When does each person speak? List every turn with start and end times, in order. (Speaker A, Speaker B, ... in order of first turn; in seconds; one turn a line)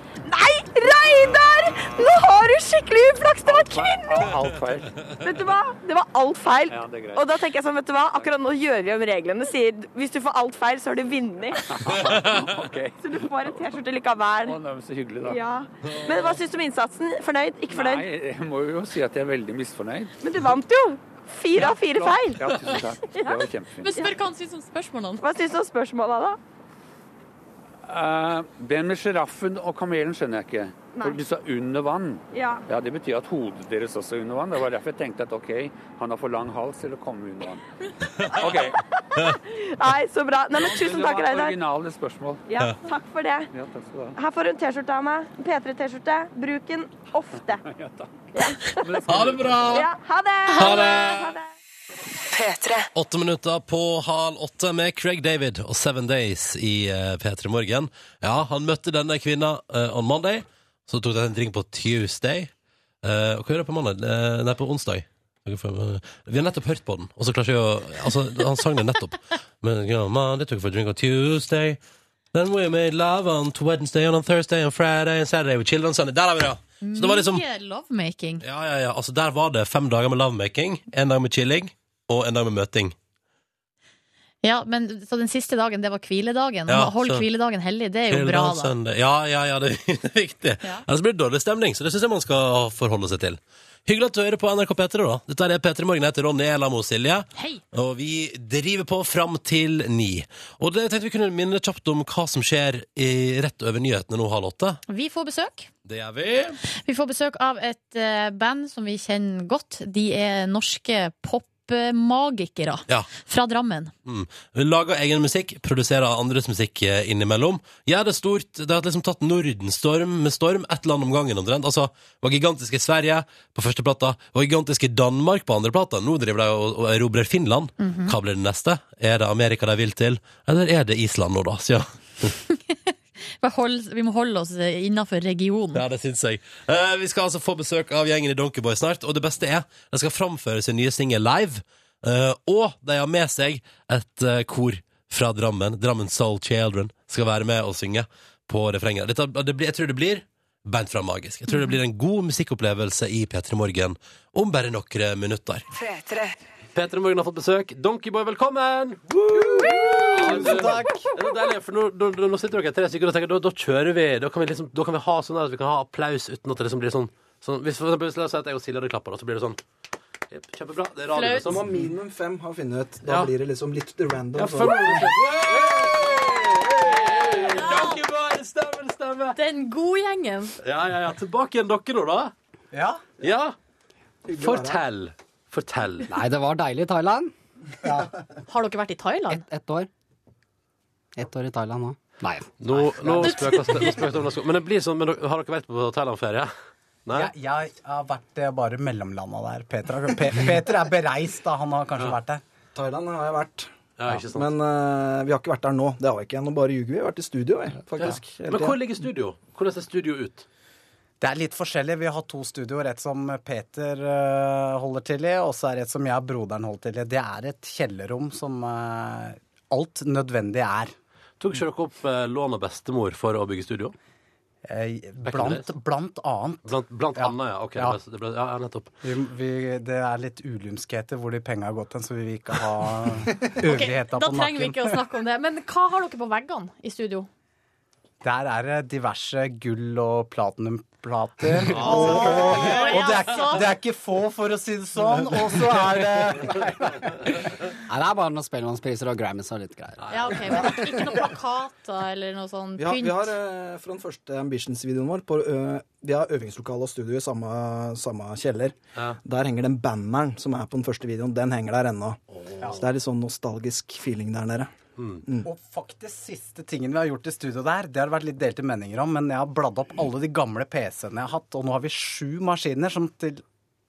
Speaker A: 0.2-4.3
Speaker B: 3.5-5.0
Speaker A: 5.2-12.1
Speaker B: 6.7-7.3
Speaker B: 11.7-13.7
Speaker C: 11.9-12.6
Speaker A: 13.0-14.6
Speaker B: 14.4-15.4
Speaker A: 15.2-18.1
Speaker C: 15.8-16.3
Speaker B: 17.7-20.1
Speaker A: 20.2-23.5
Speaker B: 21.6-24.1
Speaker D: 23.8-25.3
Speaker A: 25.2-26.4
Speaker B: 27.9-37.6
Speaker A: 30.9-31.2
Speaker A: 32.3-32.6
Speaker C: 38.1-38.4
Speaker B: 38.2-38.8
Speaker A: 38.5-41.6
Speaker B: 40.6-42.4
Speaker A: 42.5-43.5
Speaker B: 43.5-44.2
Speaker A: 44.2-47.6
Speaker B: 47.6-49.8
Speaker A: 48.3-49.0
Speaker C: 49.1-49.9
Speaker A: 49.7-51.5
Speaker C: 50.5-51.4
Speaker C: 53.0-62.5
Speaker C: 63.0-71.8
Speaker C: 72.3-77.5
Speaker D: 76.8-78.4
Speaker C: 78.4-83.0
Speaker D: 84.4-88.7
Speaker C: 86.7-87.3
Speaker C: 88.1-104.8
Speaker D: 97.4-97.6
Speaker D: 104.9-105.7
Speaker C: 105.8-106.6
Speaker D: 106.8-113.9
Speaker C: 114.1-132.3
Speaker D: 127.8-128.2
Speaker D: 133.4-135.8
Speaker C: 135.7-155.7
Speaker C: 156.7-169.6
Speaker E: 159.3-161.0
Speaker C: 170.3-171.6
Speaker D: 171.1-171.6
Speaker F: 171.4-175.1
Speaker C: 173.1-173.3
Speaker C: 174.3-179.4
Speaker D: 177.6-178.0
Speaker D: 179.3-180.6
Speaker C: 180.6-182.3
Speaker E: 182.7-183.0
Speaker C: 183.2-183.6
Speaker F: 184.3-184.8
Speaker C: 184.4-186.1
Speaker G: 186.1-187.3
Speaker E: 187.8-188.2
Speaker D: 188.5-189.4
Speaker G: 189.3-189.9
Speaker G: 191.2-193.2
Speaker C: 192.6-196.5
Speaker D: 193.2-194.0
Speaker C: 197.1-197.3
Speaker E: 197.1-202.4
Speaker F: 202.8-208.8
Speaker C: 204.0-204.5
Speaker C: 208.0-210.5
Speaker E: 211.2-220.9
Speaker C: 221.4-223.9
Speaker E: 224.7-228.0
Speaker C: 225.2-225.7
Speaker C: 226.7-228.9
Speaker E: 229.0-235.0
Speaker D: 233.6-237.3
Speaker E: 238.2-247.3
Speaker C: 241.7-243.2
Speaker D: 241.8-243.7
Speaker G: 247.9-250.3
Speaker C: 250.0-250.5
Speaker D: 250.1-253.3
Speaker F: 252.8-264.7
Speaker C: 262.4-262.8
Speaker C: 265.0-265.2
Speaker E: 265.4-273.4